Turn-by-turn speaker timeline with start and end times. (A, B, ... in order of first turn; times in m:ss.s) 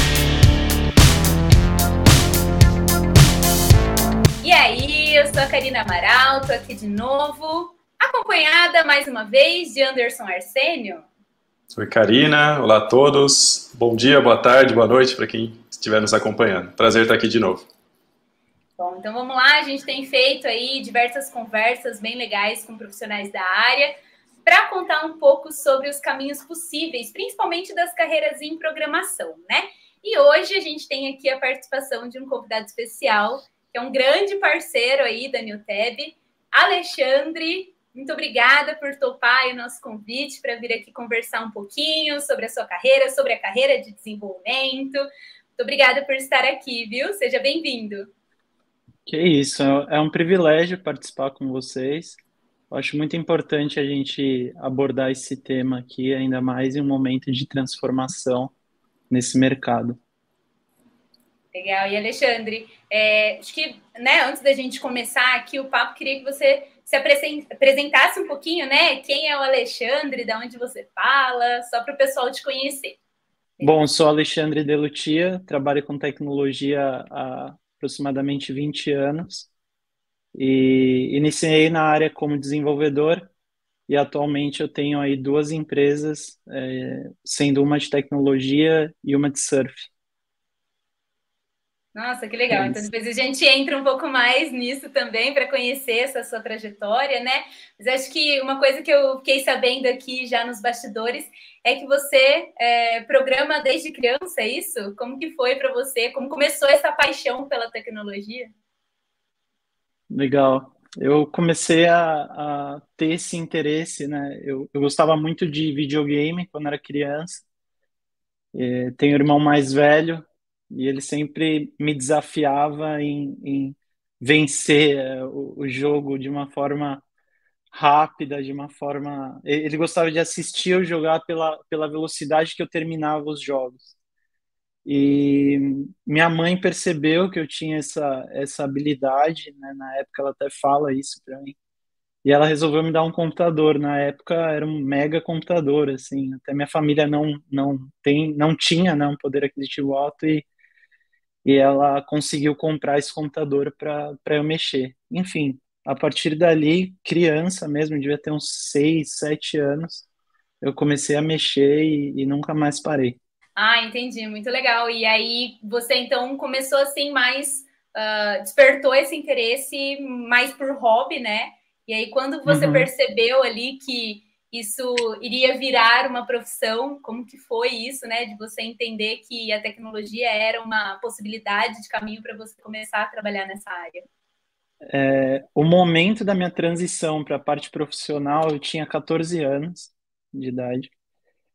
0:04.4-0:11.1 A
0:11.7-0:17.7 B
0:18.8-0:48.1 A
0:49.1-0:52.2 C
0:52.7-0:58.5 C
0:59.1-1:00.0 C
1:01.5-1:13.0 A
1:13.6-1:19.5 C
1:20.4-1:23.3 C
1:23.9-1:29.9 C
1:31.9-1:48.5 A
1:32.5-1:32.8 C
1:50.1-1:57.4 C
1:58.5-2:07.0 C
2:07.7-2:14.0 C
2:14.8-2:21.6 C
2:22.2-2:30.5 C
2:31.4-2:40.1 C
2:40.6-2:43.2 C
2:43.6-3:04.0 A
2:52.5-2:52.9 C
3:04.9-3:10.9 C